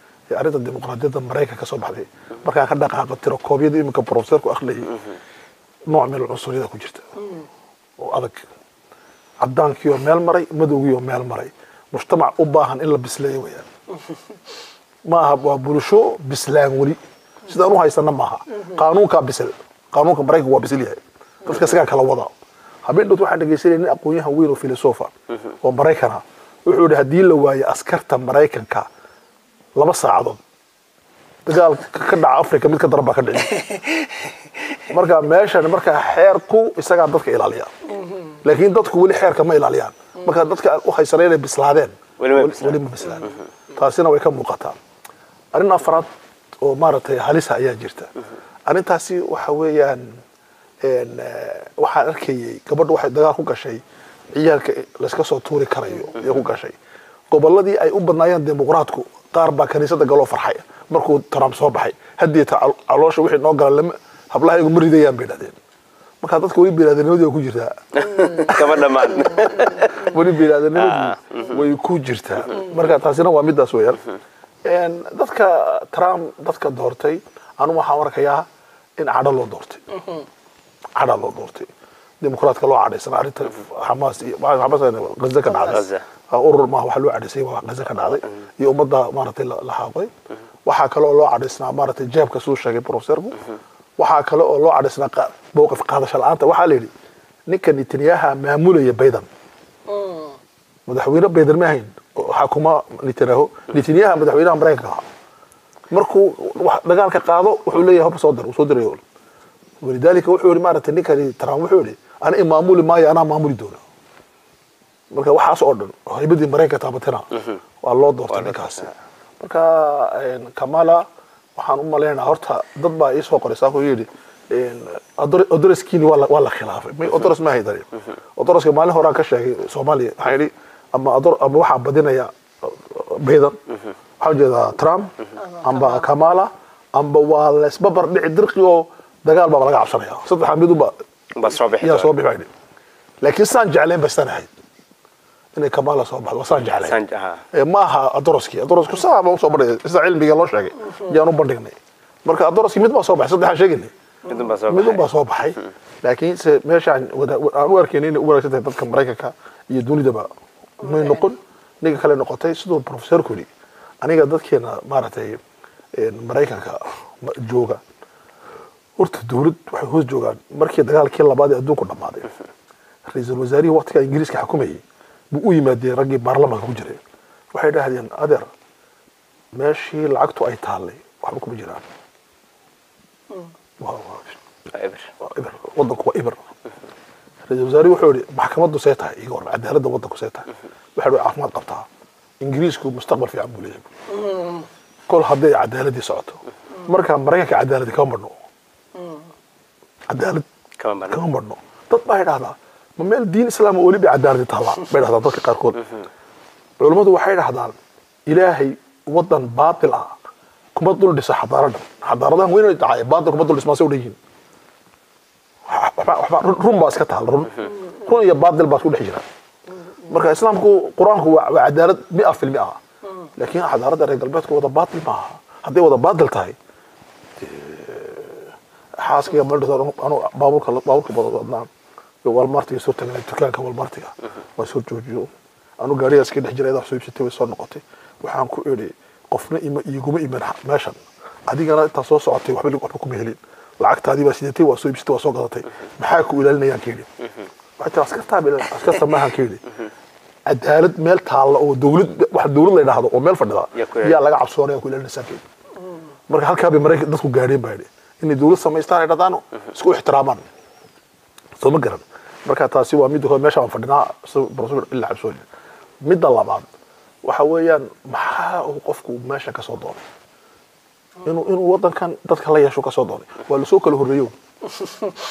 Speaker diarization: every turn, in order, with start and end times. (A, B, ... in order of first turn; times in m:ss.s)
0:00.3-0:05.0 A
0:05.9-0:07.3 A
0:08.0-0:08.4 A
0:09.4-0:13.7 A
0:15.1-0:22.3 A
0:22.8-0:28.9 A
0:29.8-0:30.4 A
0:31.4-0:33.8 A
0:34.8-0:37.7 A
0:38.2-0:44.8 A
0:42.2-0:42.8 B
0:45.5-0:46.1 A
0:46.6-0:48.1 A
0:48.7-0:50.2 A
0:50.8-0:53.8 A
0:54.3-0:56.8 A
0:57.3-1:05.6 A
1:06.2-1:14.0 A
1:07.9-1:10.1 B
1:10.7-1:11.4 B
1:14.6-1:18.5 A
1:19.0-1:20.2 A
1:21.0-1:21.7 A
1:22.2-1:30.1 A
1:25.5-1:26.0 B
1:30.6-1:33.4 A
1:34.0-1:36.9 A
1:37.5-1:39.3 A
1:40.9-1:45.0 A
1:45.9-1:49.0 A
1:49.8-1:53.8 A
1:55.1-1:57.3 A
1:57.8-2:13.6 A
1:58.3-1:58.9 B
2:14.2-2:20.9 A
2:21.3-2:22.1 B
2:21.5-2:22.5 A
2:23.2-2:24.5 A
2:25.5-2:27.0 A
2:26.6-2:27.4 B
2:27.5-2:33.9 A
2:34.2-2:35.1 B
2:34.6-2:43.5 A
2:44.0-2:45.4 A
2:45.9-2:47.8 A
2:49.0-2:52.3 A
2:53.1-2:57.0 A
2:57.5-2:58.5 A
2:59.5-3:01.8 A
3:03.8-3:04.4 A
3:04.7-3:05.1 B
3:05.2-3:06.4 A
3:07.5-3:11.8 A
3:12.4-3:13.9 A
3:15.1-3:18.3 A
3:20.1-3:20.5 A
3:20.8-3:21.2 B
3:21.1-3:25.8 A
3:26.8-3:27.8 A
3:28.3-3:30.1 A
3:30.7-3:34.2 A
3:35.7-3:39.2 A
3:40.1-3:42.8 A
3:43.4-3:46.6 A
3:47.4-3:51.7 A
3:52.2-3:55.3 A
3:55.8-4:07.1 A
4:07.8-4:09.6 A
4:10.5-4:15.4 A
4:13.7-4:14.2 B
4:16.3-4:20.4 A
4:21.6-4:25.4 A
4:26.0-4:26.7 A
4:27.2-4:30.0 A
4:31.2-4:34.3 A